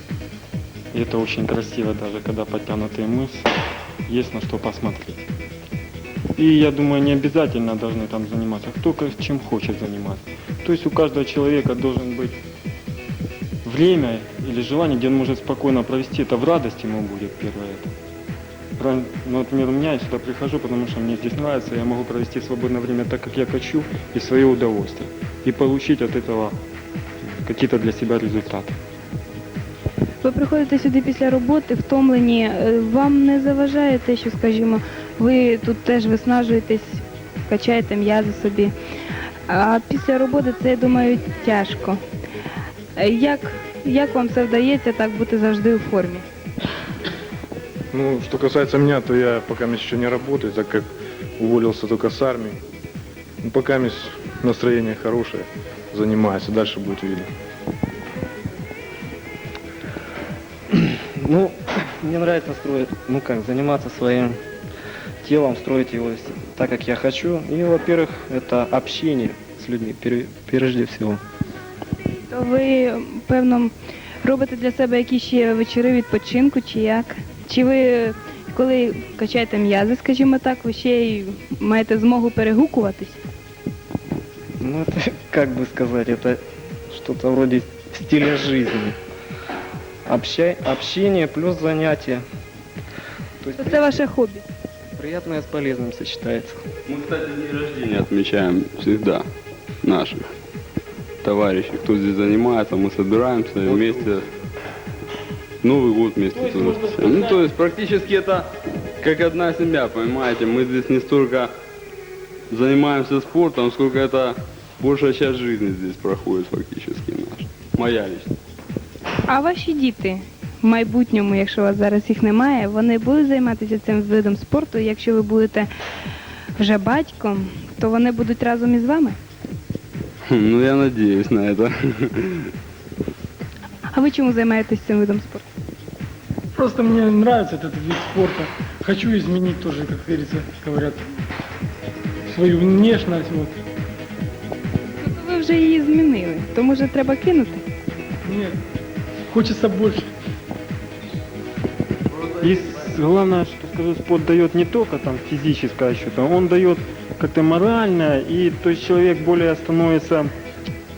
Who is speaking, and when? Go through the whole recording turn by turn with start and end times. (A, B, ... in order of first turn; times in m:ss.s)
0:00.9-0:03.5 A
0:04.1-0:05.2 A
0:06.4-0:12.4 A
0:13.6-0:17.9 A
0:18.8-0:26.6 A
0:27.4-0:28.8 A
0:30.2-0:38.7 B
0:39.5-0:42.0 B
0:43.0-0:46.2 B
0:47.9-0:52.6 C
0:53.4-0:57.3 C
1:00.8-1:04.4 D
1:05.2-1:11.2 D
1:12.3-1:13.7 B
1:14.2-1:23.2 B
1:24.6-1:29.0 D
1:30.1-1:32.2 D
1:33.4-1:33.9 D
1:33.6-1:34.5 B
1:35.0-1:36.6 D
1:36.9-1:39.2 E
1:39.8-1:40.2 E
1:41.2-1:44.2 E
1:45.6-1:48.5 E
1:49.0-1:51.5 E
1:52.5-1:58.3 E
1:59.3-2:05.7 B
2:06.6-2:09.2 B
2:10.3-2:12.5 E
2:13.9-2:15.4 B
2:16.6-2:21.0 F
2:22.3-2:23.6 F
2:25.0-2:27.6 B
2:28.3-2:28.6 F
2:29.3-2:30.1 F
2:32.4-2:40.3 A